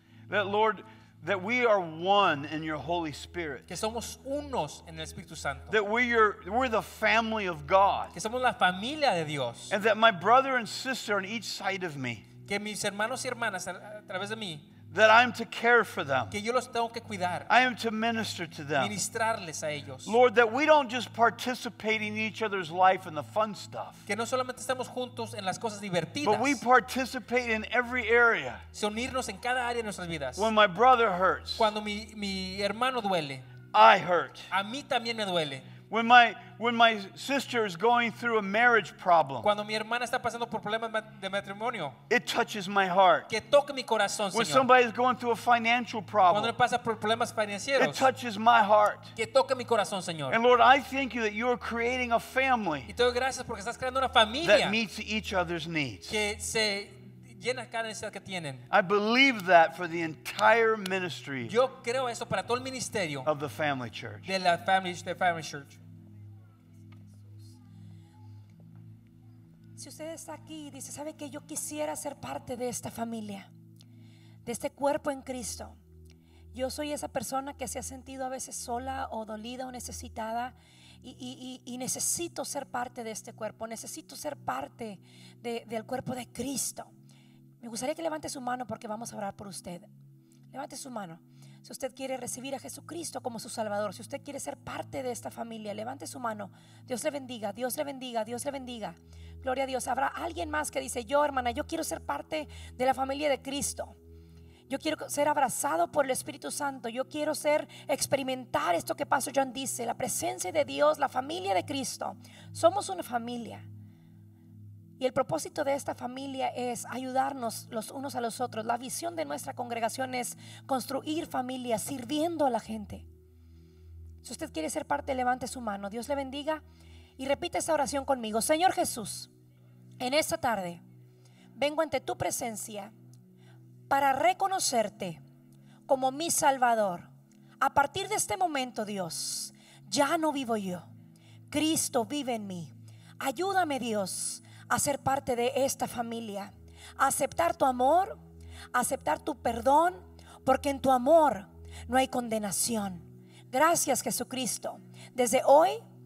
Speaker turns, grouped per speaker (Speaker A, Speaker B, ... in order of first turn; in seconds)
Speaker A: 0.3-3.7, 5.7-8.1, 9.7-12.2, 14.9-16.3, 17.5-18.9, 20.1-24.0, 26.2-28.6, 30.4-31.7, 33.7-34.5, 35.9-39.5, 42.1-43.3, 44.3-46.5, 47.8-49.1, 50.3-52.9, 54.4-56.2, 58.7-61.5, 63.2-64.3
Speaker B: 3.7-5.8, 8.1-9.7, 12.4-14.7, 16.3-17.5, 18.8-20.1, 24.1-26.6, 28.7-30.5, 31.6-33.5, 34.5-35.7, 39.4-42.0, 43.3-44.6, 46.3-48.1, 49.1-50.4, 52.9-54.8, 56.1-58.6, 61.5-63.3, 64.2-65.8
Speaker C: 69.8-73.5, 74.4-75.8, 76.5-86.9, 87.6-89.9, 90.5-104.0, 104.7-113.7, 115.0-123.0, 124.2-126.6, 127.2-129.3, 130.0-130.8, 131.5-132.9, 133.9-135.2, 135.9-137.1, 137.6-140.9, 141.5-148.2, 148.7-155.8